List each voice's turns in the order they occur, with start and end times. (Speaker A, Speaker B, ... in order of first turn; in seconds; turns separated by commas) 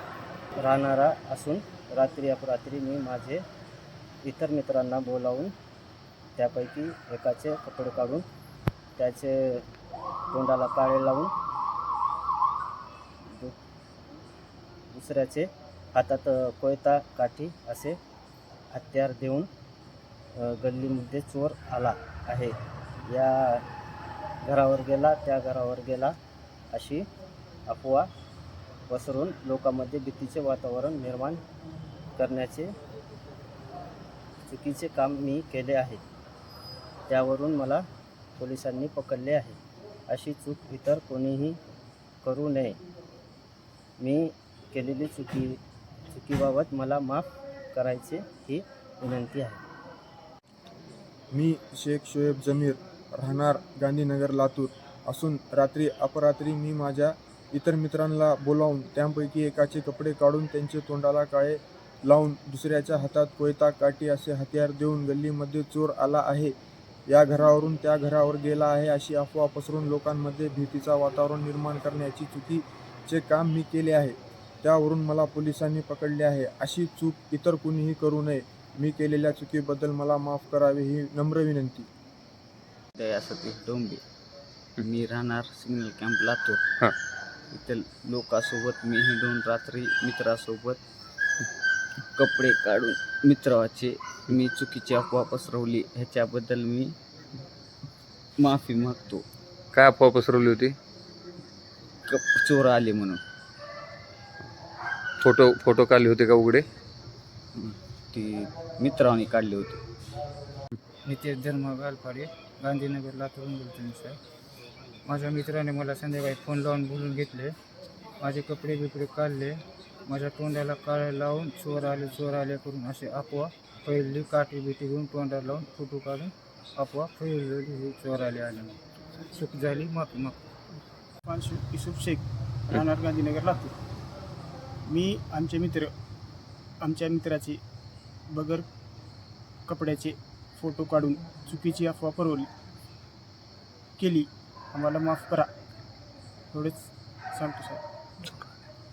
Speaker A: 0.6-3.4, Speaker A: 4.2-5.5, Speaker A: 6.4-8.2, Speaker A: 9.0-9.6, Speaker A: 10.3-11.3, Speaker A: 13.2-13.5, Speaker A: 14.9-18.0, Speaker A: 18.7-19.5, Speaker A: 20.4-22.5, Speaker A: 23.1-23.6, Speaker A: 24.4-26.1, Speaker A: 26.7-27.1, Speaker A: 27.7-28.1, Speaker A: 28.9-31.4, Speaker A: 32.2-32.7, Speaker A: 34.5-36.0, Speaker A: 37.1-37.8, Speaker A: 38.4-39.6, Speaker A: 40.1-41.6, Speaker A: 42.2-42.8, Speaker A: 44.0-45.6, Speaker A: 46.1-49.6, Speaker B: 51.3-66.5, Speaker B: 67.1-81.9, Speaker C: 83.0-84.0, Speaker C: 84.8-86.6, Speaker C: 87.5-90.8, Speaker C: 92.2-96.9, Speaker C: 98.4-99.2, Speaker D: 99.7-100.8, Speaker C: 102.1-103.2, Speaker D: 105.2-106.6, Speaker C: 107.5-109.8, Speaker E: 111.0-114.2, Speaker E: 115.0-117.5, Speaker E: 118.2-128.7, Speaker E: 129.3-130.3, Speaker F: 131.2-133.7, Speaker F: 134.8-135.9, Speaker F: 136.8-137.6, Speaker F: 138.3-138.7, Speaker F: 139.7-142.5, Speaker F: 144.0-145.5, Speaker F: 146.5-147.8